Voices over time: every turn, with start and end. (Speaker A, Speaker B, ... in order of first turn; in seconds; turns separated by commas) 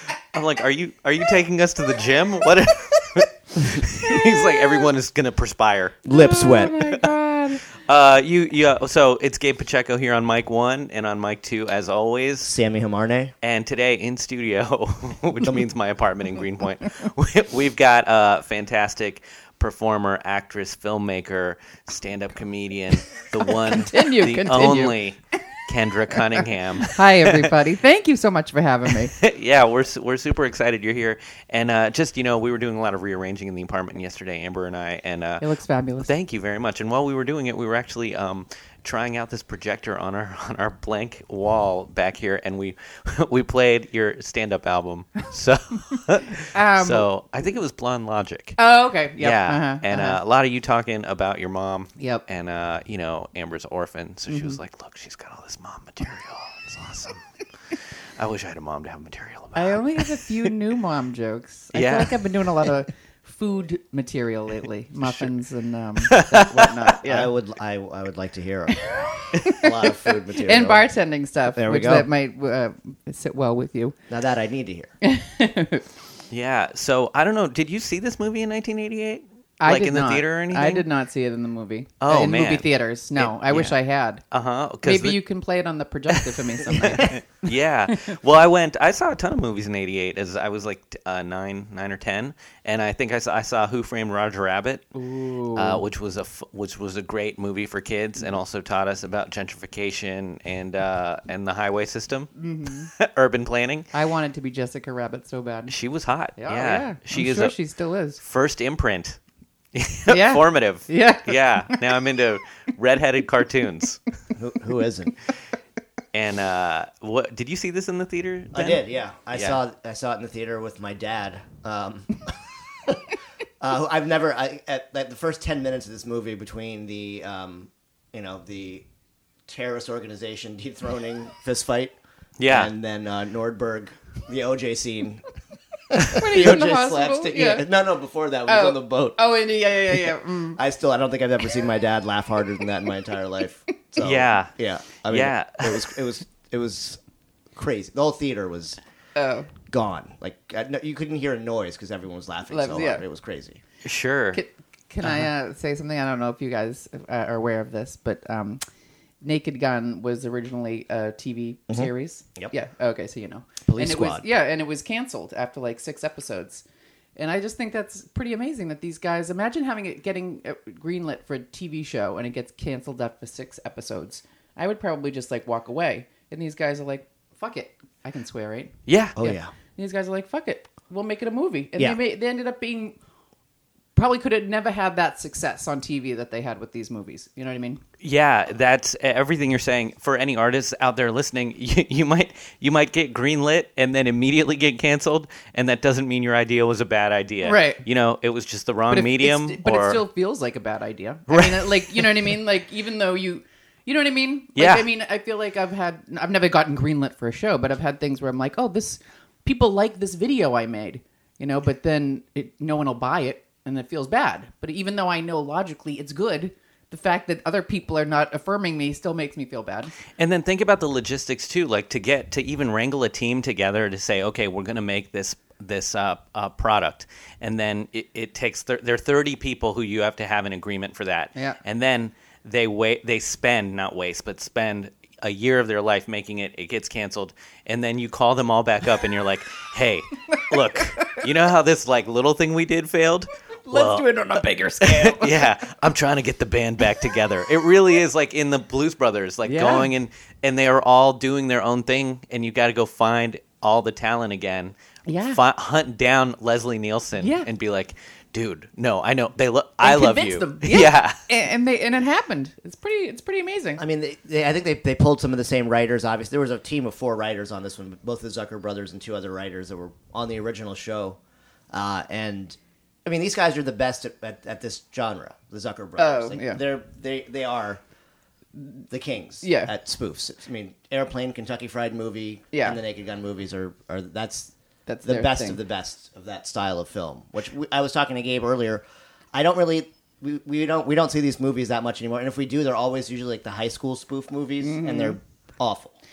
Speaker A: 0.2-6.8, Speaker B: 4.1-4.8, Speaker C: 6.0-6.8, Speaker B: 6.1-7.6, Speaker A: 7.7-12.5, Speaker C: 12.4-13.3, Speaker A: 13.4-27.5, Speaker B: 23.6-25.0, Speaker B: 26.3-29.1, Speaker A: 29.0-35.5, Speaker B: 35.4-36.1, Speaker A: 36.0-48.6, Speaker B: 46.5-47.1, Speaker B: 48.6-50.2, Speaker A: 49.2-57.2, Speaker B: 52.0-52.2, Speaker B: 54.3-54.6, Speaker A: 58.2-60.5, Speaker B: 59.5-67.3, Speaker A: 61.7-62.7, Speaker A: 66.0-66.7, Speaker C: 66.7-68.9, Speaker B: 68.9-73.9, Speaker C: 69.4-70.9, Speaker C: 71.5-72.1, Speaker C: 74.1-74.9, Speaker B: 75.0-75.8, Speaker A: 76.3-80.8, Speaker B: 79.6-84.2, Speaker A: 82.0-82.7, Speaker A: 83.2-83.7, Speaker A: 84.3-85.2, Speaker B: 84.8-87.2, Speaker A: 86.1-94.9, Speaker B: 94.9-95.8, Speaker A: 95.5-103.9, Speaker B: 102.4-102.9, Speaker B: 103.9-105.7, Speaker A: 105.7-107.5, Speaker B: 106.3-108.2, Speaker A: 108.2-109.2, Speaker A: 109.7-114.0, Speaker B: 110.1-111.8, Speaker C: 114.3-115.2, Speaker A: 116.1-118.8, Speaker C: 118.5-128.8, Speaker A: 119.3-119.6, Speaker C: 129.5-131.9, Speaker A: 132.4-132.7, Speaker C: 132.5-135.2, Speaker C: 135.9-139.2, Speaker B: 135.9-137.6, Speaker B: 138.5-140.6, Speaker C: 139.9-147.0, Speaker A: 144.0-144.5, Speaker A: 145.1-146.0, Speaker C: 147.5-148.8, Speaker B: 149.2-149.5, Speaker C: 149.7-153.6, Speaker B: 152.5-153.0, Speaker A: 153.8-154.4, Speaker B: 154.3-158.6, Speaker B: 159.2-166.6, Speaker C: 161.7-162.5, Speaker C: 163.7-164.2, Speaker B: 167.2-183.0, Speaker A: 178.9-179.2, Speaker C: 179.2-179.5, Speaker B: 183.9-187.8, Speaker A: 188.0-200.0, Speaker B: 197.4-197.8, Speaker B: 198.9-219.9, Speaker A: 201.3-202.2, Speaker A: 204.6-204.9, Speaker A: 220.2-254.7, Speaker B: 240.7-241.2, Speaker B: 243.7-245.5, Speaker B: 249.4-249.9, Speaker B: 255.1-255.4, Speaker A: 255.2-261.2, Speaker B: 257.2-257.5, Speaker B: 259.8-263.8, Speaker C: 263.8-271.2, Speaker C: 271.7-277.8, Speaker B: 276.0-276.6, Speaker C: 278.9-284.5, Speaker B: 279.4-279.7, Speaker B: 282.5-282.8, Speaker B: 284.9-285.6, Speaker C: 285.0-295.9, Speaker B: 294.6-295.2